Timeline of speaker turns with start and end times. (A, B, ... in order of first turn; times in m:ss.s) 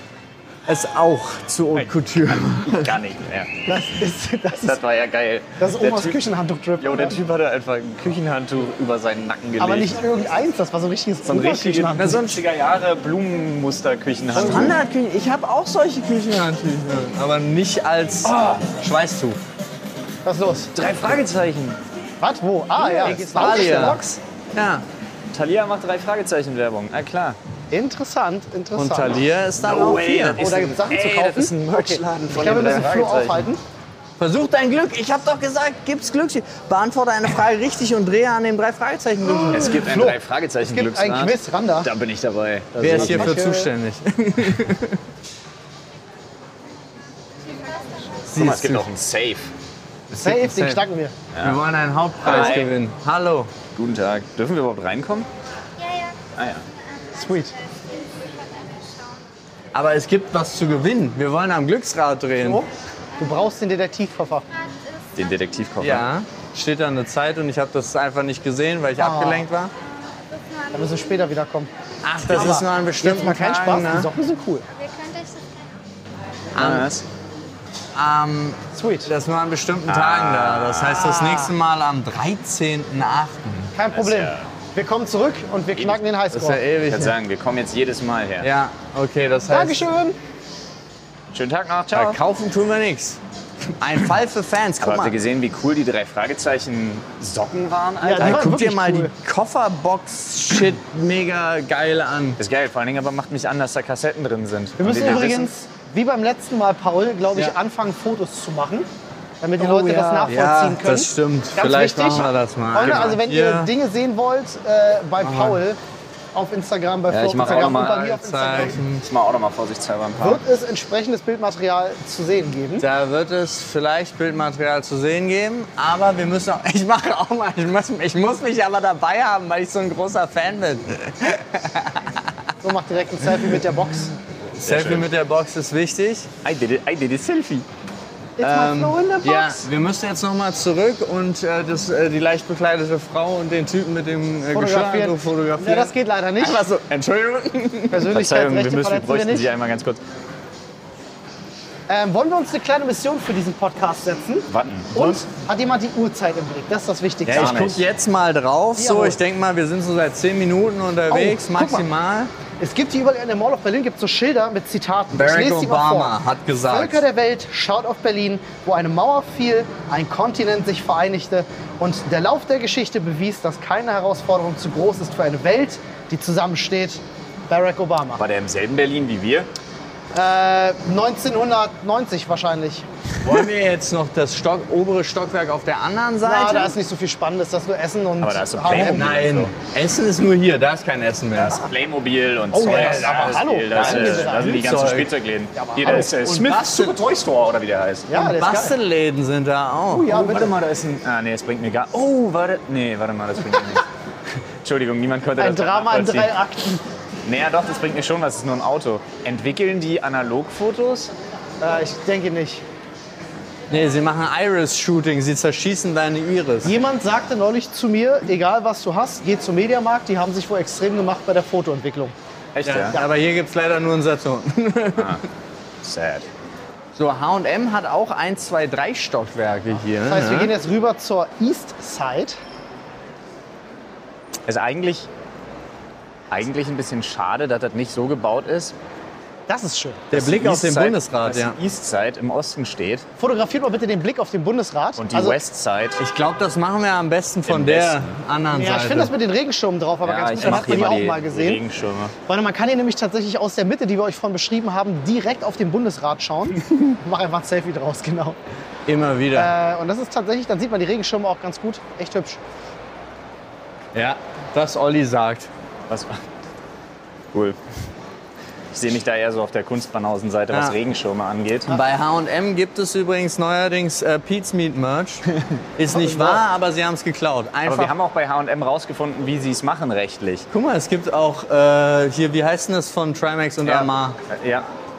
0:00.7-0:02.9 A
0:01.7-0:03.8 B
0:03.6-0:04.8 C
0:04.6-0:06.2 B
0:05.6-0:07.2 C
0:06.8-0:10.0 B
0:09.6-0:12.3 C
0:11.2-0:14.8 B
0:12.0-0:12.4 A
0:14.3-0:14.8 C
0:14.4-0:19.4 A
0:18.2-0:18.6 B
0:20.2-0:20.7 C
0:20.7-0:21.8 B
0:22.2-0:24.2 C
0:22.8-0:24.8 A
0:25.3-0:27.4 B
0:27.7-0:29.2 C
0:28.8-0:30.4 A
0:29.6-0:33.5 B
0:30.4-0:33.6 C
0:34.2-0:39.7 A
0:39.3-0:41.9 C
0:39.5-0:43.4 B
0:42.8-0:45.0 A
0:42.8-0:43.7 C
0:48.2-0:48.9 A
0:48.3-0:49.5 B
0:50.1-0:50.8 A
0:50.1-0:51.1 C
0:51.3-0:51.6 B
0:51.4-0:53.5 A
0:52.2-0:52.7 B
0:53.7-0:55.3 B
0:56.3-0:56.7 B
0:57.1-0:57.6 C
0:59.7-1:02.6 A
1:03.2-1:04.4 C
1:05.1-1:06.1 B
1:05.8-1:09.7 A
1:09.0-1:09.4 C
1:10.7-1:11.7 C
1:12.0-1:14.1 A
1:12.3-1:12.6 B
1:12.3-1:14.7 C
1:16.5-1:16.9 A
1:16.6-1:17.0 B
1:17.9-1:23.7 A
1:18.7-1:19.1 C
1:19.9-1:21.1 B
1:21.0-1:21.5 C
1:23.7-1:26.6 C
1:23.9-1:24.5 B
1:25.8-1:26.0 B
1:26.3-1:27.1 A
1:26.8-1:28.5 B
1:28.4-1:29.8 A
1:29.5-1:30.2 C
1:31.3-1:32.2 B
1:31.9-1:33.2 A
1:33.8-1:35.2 A
1:34.8-1:38.5 B
1:38.0-1:39.1 C
1:38.2-1:42.4 A
1:42.4-1:45.5 B
1:44.8-1:48.9 C
1:49.4-1:55.8 C
1:49.6-1:53.7 A
1:55.2-1:55.6 A
1:56.3-1:58.8 C
1:57.1-1:58.1 B
1:57.4-1:59.0 A
1:59.0-2:00.4 B
2:00.2-2:02.8 C
2:02.8-2:12.3 A
2:12.6-2:14.1 C
2:14.5-2:16.3 A
2:14.6-2:15.1 B
2:16.4-2:17.6 B
2:18.4-2:19.6 C
2:18.4-2:28.1 A
2:24.5-2:26.6 C
2:27.9-2:29.5 C
2:28.1-2:30.0 B
2:31.9-2:37.6 C
2:34.5-2:35.2 B
2:37.2-2:42.3 A
2:37.3-2:37.8 B
2:38.8-2:39.2 C
2:41.1-2:41.8 C
2:42.6-2:46.2 C
2:45.1-2:47.0 A
2:46.7-2:58.2 C
2:58.2-2:59.5 B
3:00.1-3:02.9 C
3:03.2-3:06.8 A
3:06.2-3:09.1 C
3:08.2-3:09.5 B
3:08.7-3:11.7 A
3:11.3-3:18.1 B
3:12.5-3:14.8 C
3:12.7-3:15.1 A
3:15.5-3:16.1 C
3:15.8-3:17.0 A
3:18.1-3:18.8 C
3:18.1-3:20.1 A
3:19.9-3:20.6 C
3:20.1-3:26.3 B
3:25.4-3:26.8 C
3:27.2-3:31.1 B
3:31.6-3:32.6 C
3:33.7-3:36.7 A
3:36.6-3:42.1 C
3:42.5-3:43.0 B
3:42.6-3:45.2 A
3:45.0-3:45.2 B
3:45.8-3:46.3 B
3:46.9-3:50.5 A
3:50.0-3:52.4 C
3:54.5-3:55.1 B
3:56.3-3:58.8 B
3:59.5-4:00.1 C
4:00.1-4:01.6 A
4:00.1-4:03.0 B
4:03.2-4:05.4 C
4:05.0-4:06.0 B
4:06.0-4:09.1 A
4:07.5-4:08.1 B
4:08.5-4:11.6 C
4:10.0-4:12.1 B
4:10.4-4:10.8 A
4:12.3-4:18.4 C
4:18.9-4:19.5 A
4:19.3-4:22.4 C
4:23.9-4:25.5 A
4:25.9-4:26.2 B
4:27.3-4:27.6 B
4:28.7-4:31.7 B
4:30.5-4:30.8 A
4:31.7-4:37.9 A
4:35.3-4:35.6 B
4:35.9-4:36.4 C
4:37.6-4:40.5 B
4:40.5-4:44.2 A
4:43.6-4:44.7 B